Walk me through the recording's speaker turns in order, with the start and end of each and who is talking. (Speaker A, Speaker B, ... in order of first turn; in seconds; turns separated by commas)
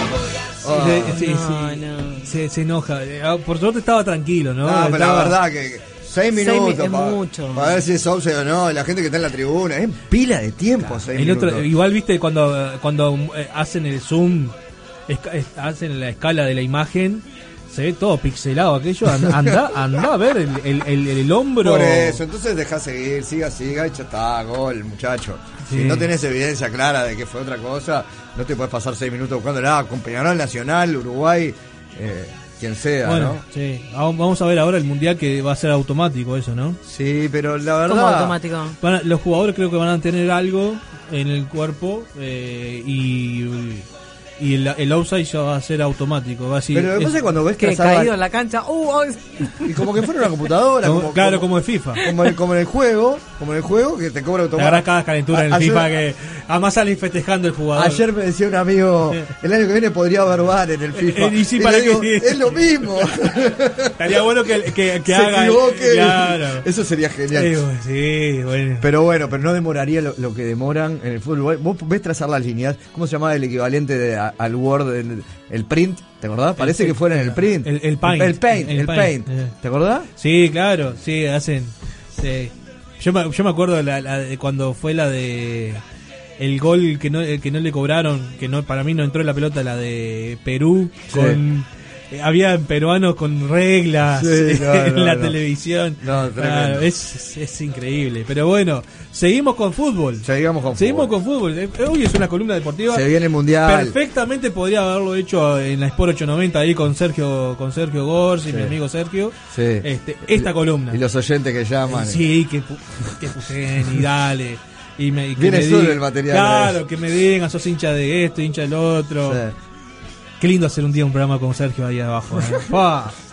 Speaker A: 0.6-1.2, Speaker B: 0.7-5.3, Speaker C: 1.1-2.3, Speaker A: 4.6-11.7, Speaker C: 6.3-7.8, Speaker B: 11.1-14.5, Speaker B: 15.1-22.2, Speaker A: 19.1-19.6, Speaker A: 21.6-33.4, Speaker B: 25.6-26.1, Speaker B: 33.0-36.8, Speaker A: 36.8-38.4, Speaker C: 37.9-38.8, Speaker B: 38.8-43.9, Speaker B: 44.4-47.2, Speaker A: 46.7-48.1, Speaker C: 47.6-49.7, Speaker A: 49.6-51.5, Speaker B: 50.8-52.0, Speaker A: 52.0-55.9, Speaker B: 54.5-58.0, Speaker A: 57.7-64.2, Speaker B: 61.0-62.8, Speaker B: 64.0-66.7, Speaker A: 65.0-67.5, Speaker B: 67.3-68.9, Speaker A: 68.8-80.1, Speaker B: 76.6-79.5, Speaker B: 80.2-85.8, Speaker B: 86.4-103.0, Speaker A: 91.1-91.4, Speaker A: 94.1-95.4, Speaker A: 96.0-96.8, Speaker A: 100.2-101.1, Speaker A: 102.9-104.0, Speaker B: 103.6-111.0, Speaker A: 108.5-108.7, Speaker A: 109.5-112.2, Speaker B: 111.9-119.4, Speaker A: 115.4-116.8, Speaker A: 119.2-119.5, Speaker B: 120.4-123.1